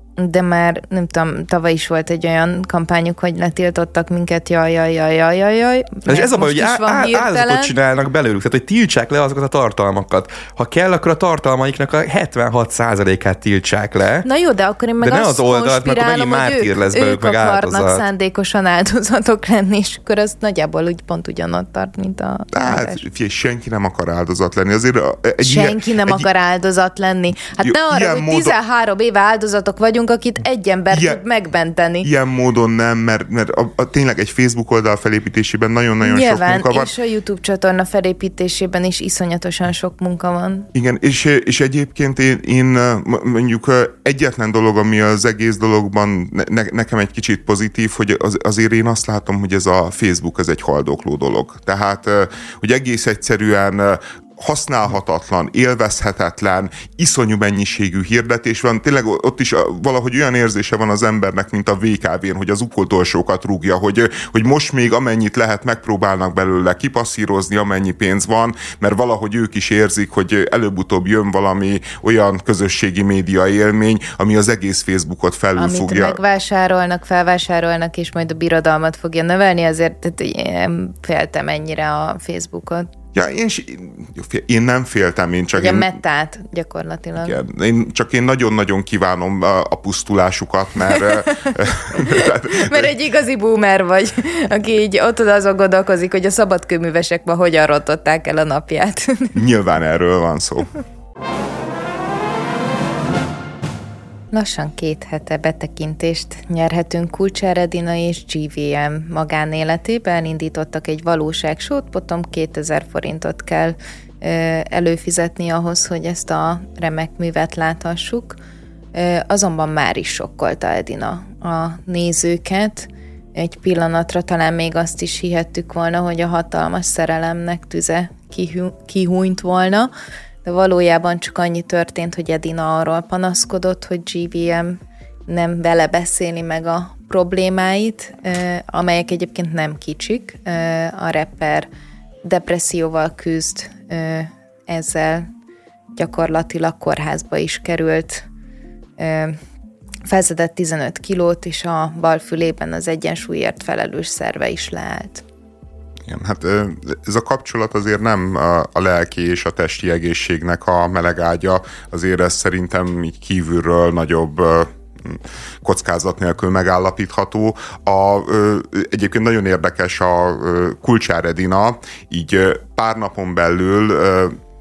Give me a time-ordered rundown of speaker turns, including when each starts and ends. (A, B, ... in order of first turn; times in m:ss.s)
0:00.2-0:07.7 A
0:06.1-0:14.3 B
0:14.2-0:23.0 A
0:15.0-0:18.0 B
0:22.5-0:26.3 C
0:25.4-0:32.1 A
0:27.6-0:28.6 C
0:30.9-0:31.2 C
0:32.0-0:36.9 C
0:36.0-0:40.7 A
0:40.7-1:16.2 C
1:15.6-1:22.9 A
1:23.1-1:25.9 C
1:25.6-1:27.4 A
1:27.2-1:32.9 C
1:31.0-1:39.4 A
1:39.3-1:40.8 C
1:44.3-1:58.4 A
1:58.9-2:09.9 A
2:10.4-2:21.7 A
2:22.2-2:25.3 A
2:26.0-2:28.3 A
2:29.0-2:29.4 A
2:30.1-2:35.2 A
2:36.1-2:54.4 C